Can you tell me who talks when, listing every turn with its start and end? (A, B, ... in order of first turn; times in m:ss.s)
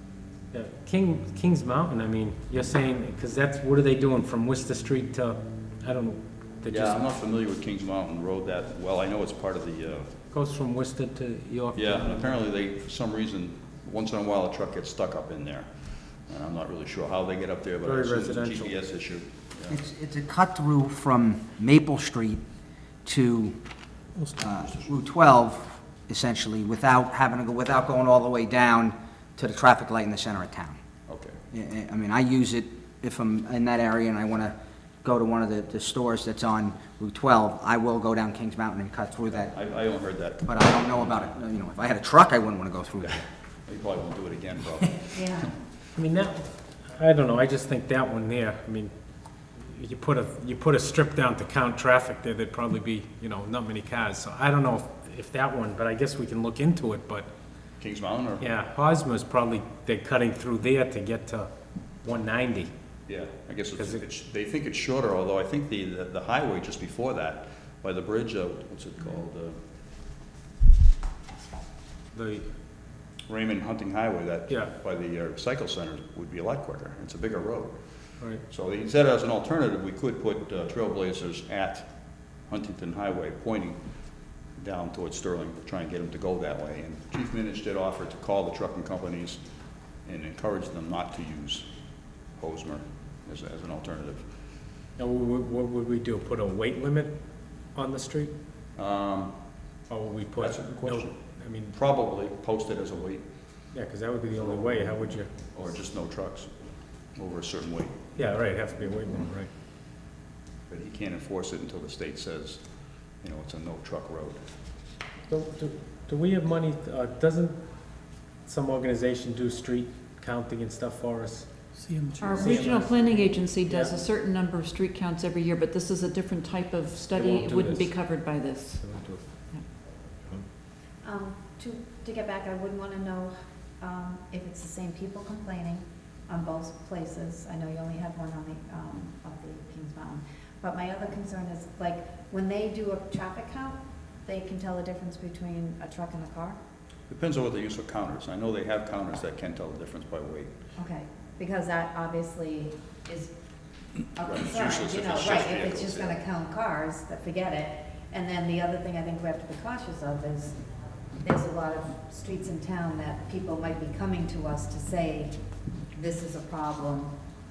0:00.5-0:07.0 A
0:06.7-0:10.2 B
0:10.3-0:12.3 A
0:11.7-0:19.8 B
0:17.8-0:18.7 A
0:19.7-0:22.4 C
0:23.0-0:23.6 C
0:24.4-0:30.8 C
0:24.4-0:24.9 B
0:31.1-0:31.4 B
0:31.5-0:39.5 C
0:39.3-0:41.4 B
0:40.5-0:43.2 C
0:43.0-0:45.5 B
0:45.1-0:45.5 D
0:46.0-0:48.9 A
0:49.6-0:57.3 A
0:57.8-0:58.5 B
0:58.4-1:01.5 A
1:02.0-1:02.7 A
1:03.1-1:09.6 B
1:03.8-1:04.0 A
1:12.1-1:12.5 A
1:13.3-1:17.8 B
1:18.4-1:21.9 B
1:22.5-1:23.8 B
1:24.6-1:29.4 B
1:30.0-1:31.7 B
1:32.4-1:34.2 B
1:35.0-1:37.1 A
1:37.7-1:38.3 A
1:38.8-1:39.4 B
1:39.9-1:41.8 A
1:40.4-1:41.2 B
1:41.7-1:43.2 B
1:43.7-1:45.3 A
1:44.3-1:46.5 B
1:47.2-1:48.0 B
1:48.2-1:49.5 A
1:50.7-1:52.6 B
1:53.2-1:54.4 B
1:55.3-1:57.6 A
1:58.4-2:01.5 A
2:02.2-2:08.8 E
2:02.2-2:04.0 A
2:07.1-2:07.9 A
2:08.8-2:09.2 A
2:11.0-2:26.6 D
2:27.1-2:30.5 B
2:30.8-2:33.3 D
2:34.2-2:40.6 D
2:34.2-2:36.2 B
2:41.2-2:45.3 D
2:46.0-2:47.1 D